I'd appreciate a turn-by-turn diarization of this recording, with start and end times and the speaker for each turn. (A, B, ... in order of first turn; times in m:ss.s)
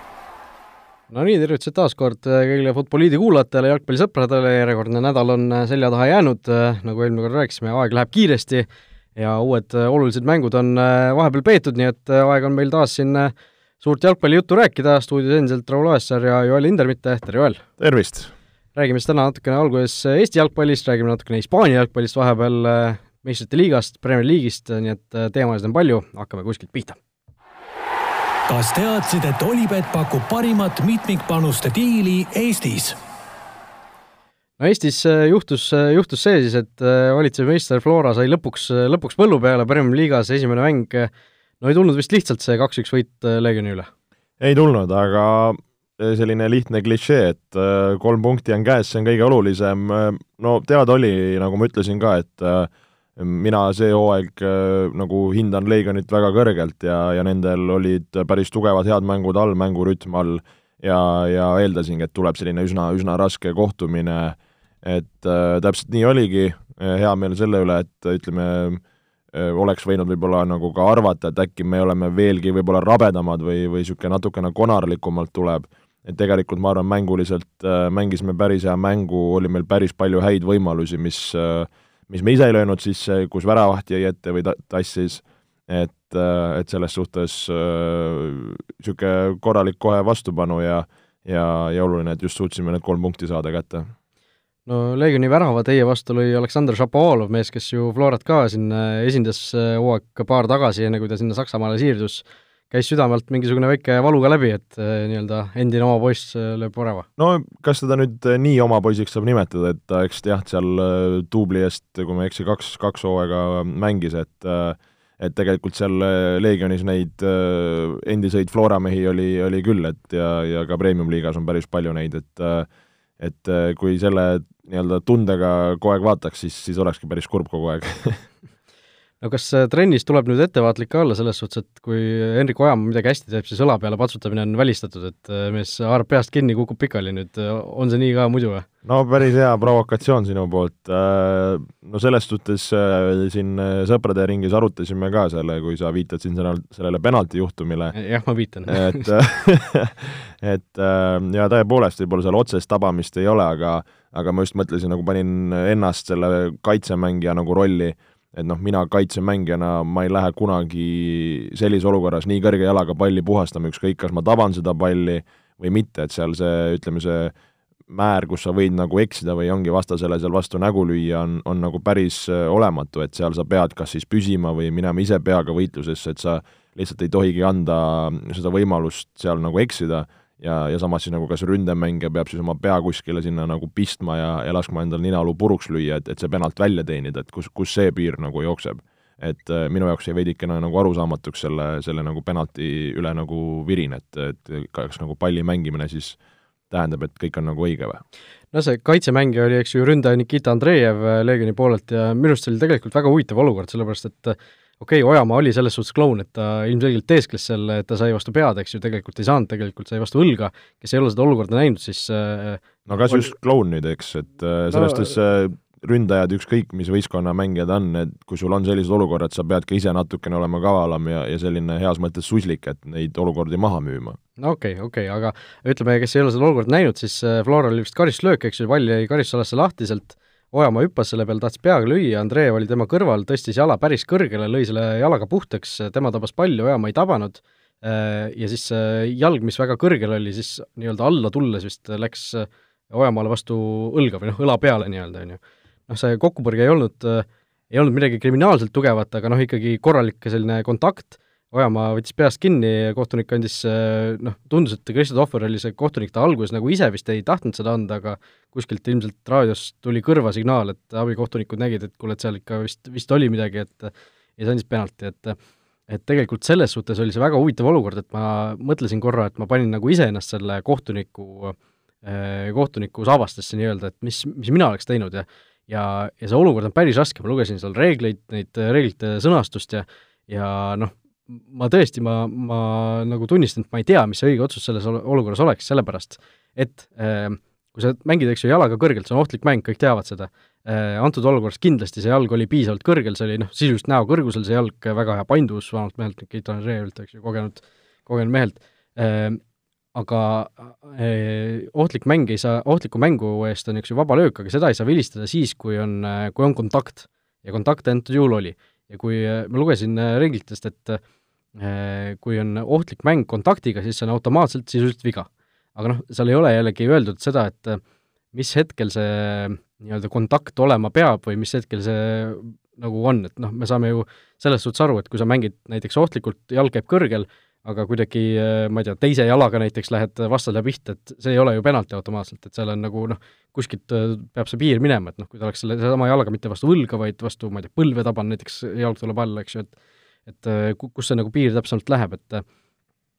0:01.1-0:17.6 A
0:17.8-0:18.3 B
0:18.8-0:27.0 A
0:28.5-0:33.0 C
0:34.6-0:41.1 A
0:41.6-0:43.9 A
0:44.4-1:08.8 B
1:09.3-1:33.9 B
1:34.7-1:47.1 A
1:47.2-2:02.7 B
2:03.2-2:08.2 B
2:09.2-2:18.7 A
2:18.8-2:27.9 B
2:27.9-2:29.1 A
2:28.7-2:47.4 B
2:47.9-3:16.2 B
3:16.7-3:18.0 B
3:18.5-3:33.3 A
3:32.9-3:44.2 B
3:34.7-3:35.1 A
3:44.4-4:25.4 A
4:25.9-4:59.4 A
4:59.9-5:11.0 A
5:11.6-5:17.8 A
5:18.3-5:39.7 A
5:40.3-5:42.4 A